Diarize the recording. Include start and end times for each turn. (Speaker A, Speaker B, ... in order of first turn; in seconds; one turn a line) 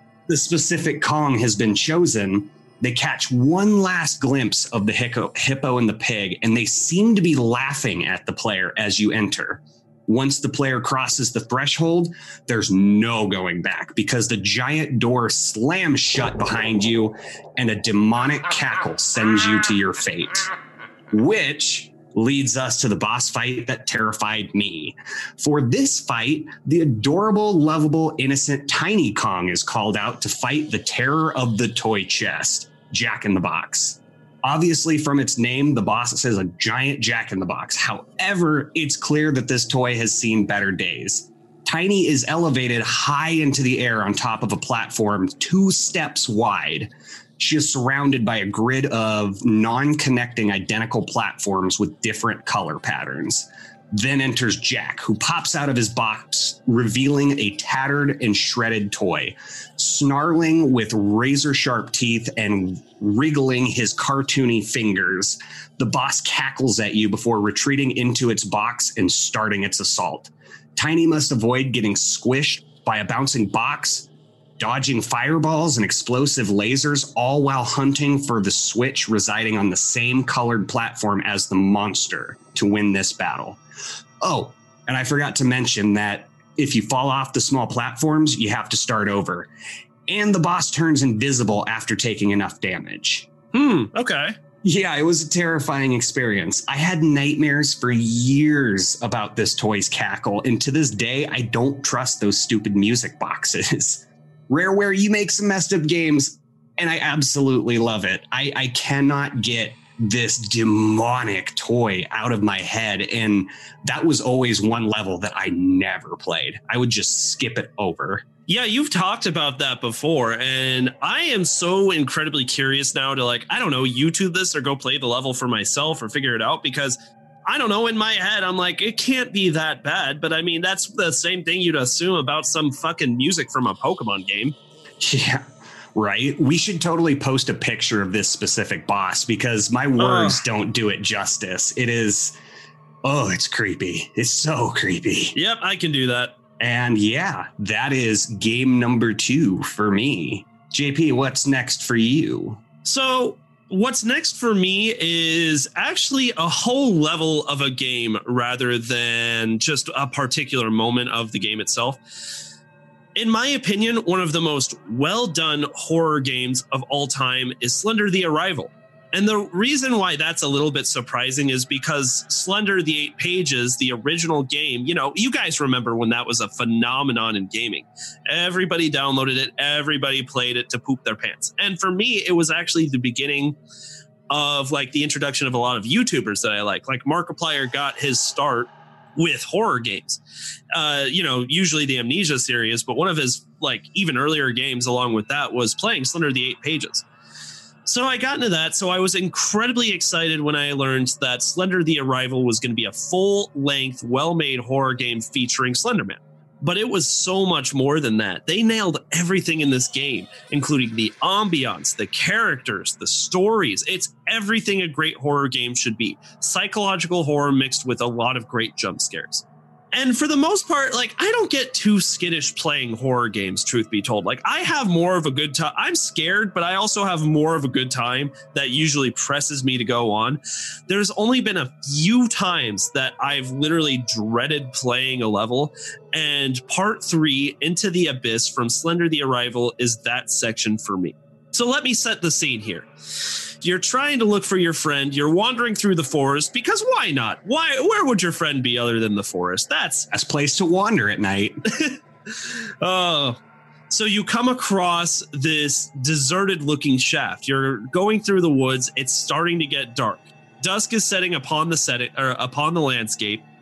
Speaker A: 0.3-20.5
Speaker A: 21.1-83.6
Speaker A: 84.2-89.5
Speaker A: 90.1-93.3
Speaker B: 93.5-94.3
Speaker A: 94.6-118.2
Speaker B: 118.5-134.5
Speaker A: 135.0-142.3
Speaker B: 140.0-140.4
Speaker A: 143.0-145.3
Speaker B: 145.3-146.3
Speaker A: 146.6-152.6
Speaker B: 152.8-162.0
Speaker B: 163.2-183.6
Speaker B: 184.3-190.2
Speaker B: 190.7-197.1
Speaker B: 197.8-242.9
Speaker B: 243.6-250.1
Speaker A: 250.1-251.6
Speaker B: 251.8-263.4